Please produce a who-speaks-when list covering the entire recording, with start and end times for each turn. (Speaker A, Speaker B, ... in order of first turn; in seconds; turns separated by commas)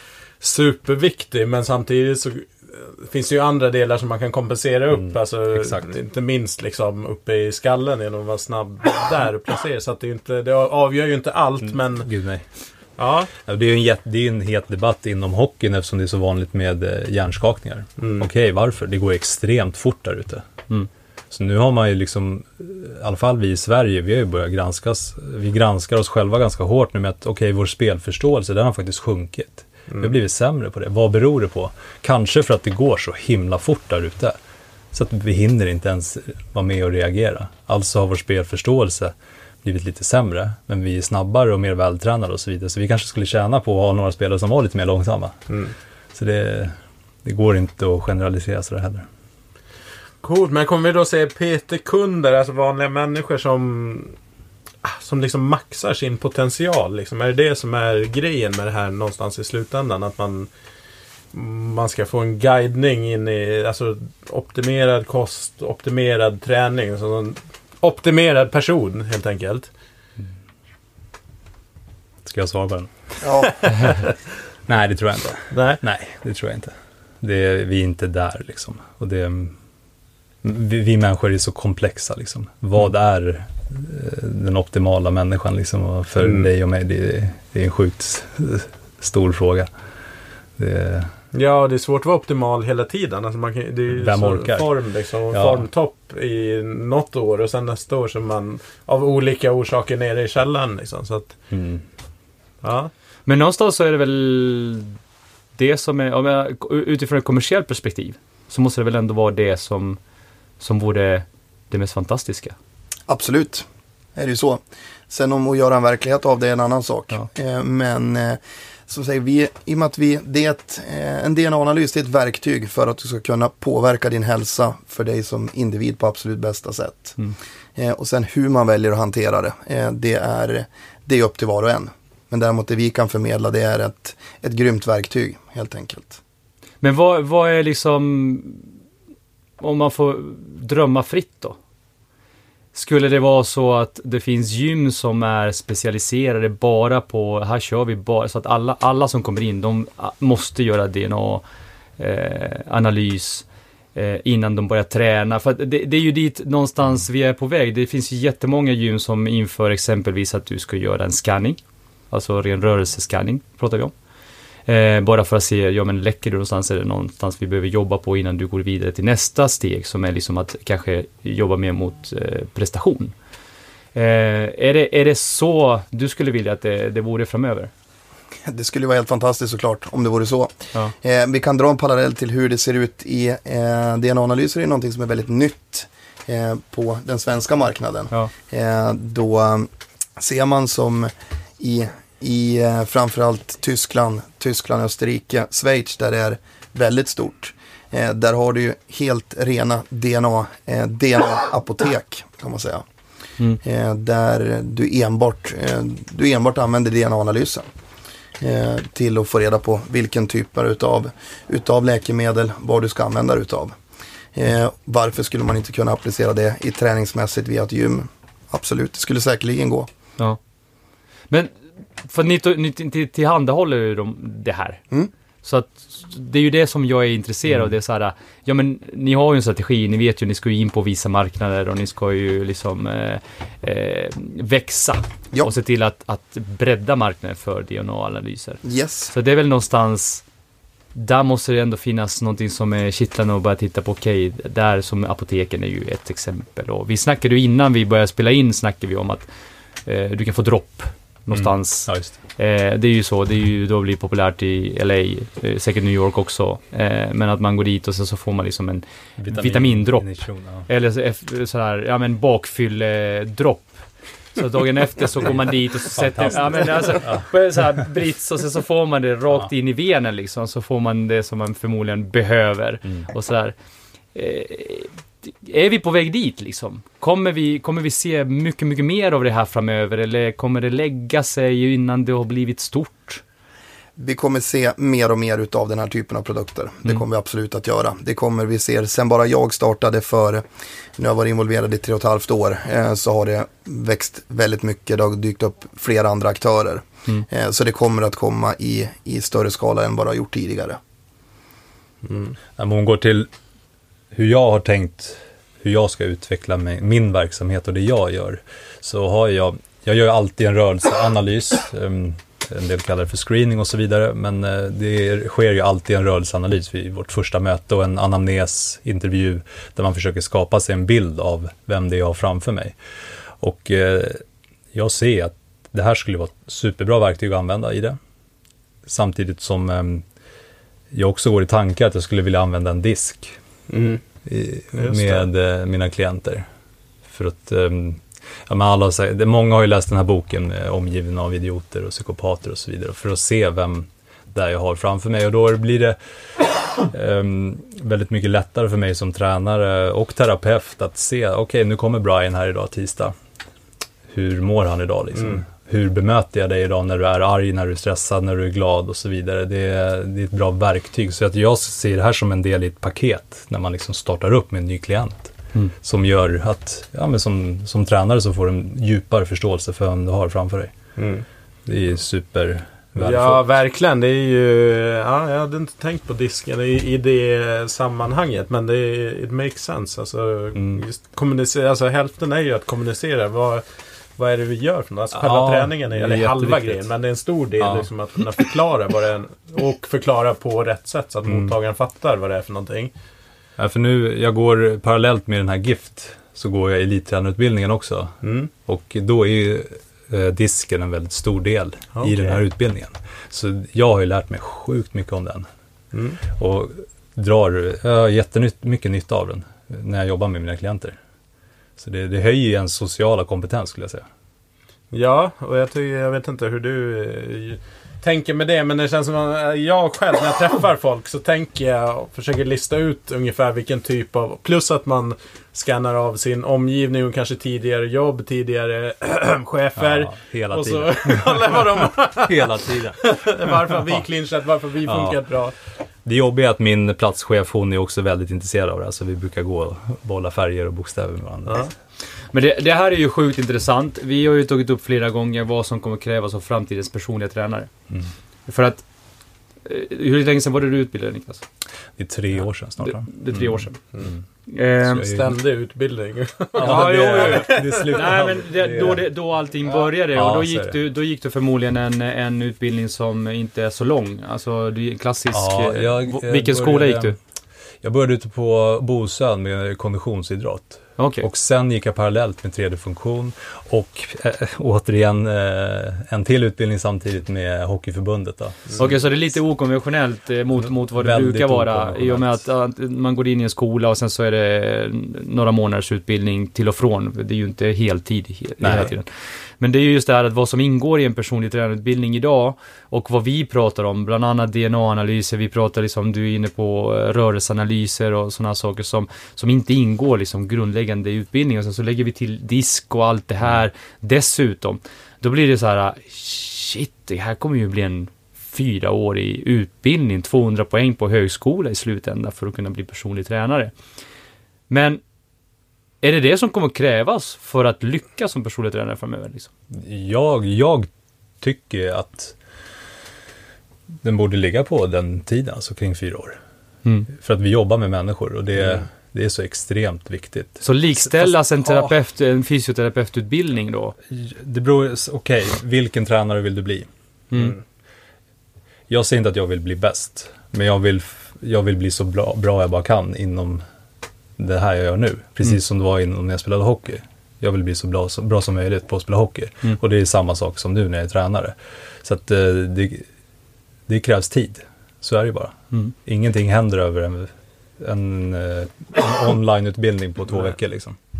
Speaker A: 0.4-12.1, Speaker B: 4.9-5.8, Speaker B: 11.9-12.4, Speaker A: 13.0-13.3, Speaker B: 13.4-20.7, Speaker A: 18.0-18.3, Speaker B: 21.3-34.4, Speaker B: 34.9-45.4, Speaker B: 46.1-46.7, Speaker B: 47.2-49.0, Speaker A: 50.2-54.1, Speaker A: 54.8-60.5, Speaker A: 61.3-69.7, Speaker B: 72.2-73.2, Speaker C: 73.2-73.5, Speaker A: 73.8-74.1, Speaker B: 74.7-79.5, Speaker A: 75.5-75.8, Speaker B: 80.4-89.7, Speaker A: 86.2-86.5, Speaker B: 90.6-91.1, Speaker A: 91.3-101.3, Speaker B: 93.9-94.7, Speaker B: 95.3-95.7, Speaker B: 101.5-101.8, Speaker A: 102.6-102.9, Speaker D: 103.2-105.0, Speaker D: 105.5-110.0, Speaker D: 110.6-112.5, Speaker C: 113.1-127.2, Speaker C: 127.8-136.2, Speaker D: 136.8-138.7, Speaker D: 139.6-141.6, Speaker D: 142.7-151.4, Speaker D: 152.0-161.6, Speaker D: 162.1-163.9, Speaker D: 164.7-173.1, Speaker D: 173.9-177.7, Speaker C: 178.4-202.8, Speaker C: 203.6-207.7, Speaker C: 208.4-213.8, Speaker C: 214.3-219.9, Speaker D: 221.3-224.8, Speaker D: 225.4-240.2, Speaker C: 238.6-239.1, Speaker D: 240.9-249.3, Speaker D: 249.8-273.5, Speaker B: 251.3-252.1, Speaker B: 259.2-260.7, Speaker B: 265.9-267.3, Speaker D: 274.1-283.2, Speaker C: 284.0-290.4, Speaker C: 291.0-300.8, Speaker A: 302.0-302.4, Speaker B: 302.6-303.3, Speaker B: 304.1-322.8, Speaker B: 323.4-328.0, Speaker B: 328.9-330.0, Speaker B: 330.9-333.4, Speaker A: 333.7-334.0, Speaker B: 334.2-336.4, Speaker A: 334.7-335.2, Speaker B: 337.1-353.1, Speaker B: 354.1-370.7, Speaker A: 355.1-355.4, Speaker A: 371.0-371.2, Speaker B: 371.6-373.4, Speaker A: 373.0-383.6, Speaker B: 380.5-380.8, Speaker A: 384.2-392.9, Speaker B: 385.1-386.9, Speaker B: 387.6-387.9, Speaker B: 391.2-391.5, Speaker B: 393.6-405.5, Speaker A: 398.2-398.5, Speaker A: 401.9-402.4, Speaker A: 405.9-406.2, Speaker B: 406.3-411.0, Speaker B: 411.8-414.1, Speaker A: 414.9-435.5, Speaker B: 429.8-434.0, Speaker B: 434.8-435.2, Speaker B: 436.0-441.7, Speaker A: 441.4-441.7, Speaker D: 442.3-447.7, Speaker D: 448.5-448.8, Speaker D: 449.6-451.4, Speaker B: 452.0-454.2, Speaker D: 452.8-453.8, Speaker D: 454.5-455.1, Speaker A: 454.9-458.0, Speaker B: 454.9-455.4, Speaker B: 456.6-459.1, Speaker D: 456.6-467.1, Speaker B: 460.1-460.8, Speaker B: 465.3-467.1, Speaker B: 467.8-478.9, Speaker D: 471.0-471.2, Speaker D: 478.8-513.7, Speaker B: 480.6-482.4, Speaker B: 488.6-488.9, Speaker D: 514.7-515.0, Speaker D: 516.0-519.5, Speaker B: 519.7-520.9, Speaker B: 521.4-522.4, Speaker B: 524.0-526.4, Speaker B: 527.1-531.9, Speaker D: 530.6-534.0, Speaker B: 534.1-536.9, Speaker D: 537.3-537.6, Speaker B: 538.9-543.6, Speaker B: 544.4-553.0, Speaker B: 553.9-561.0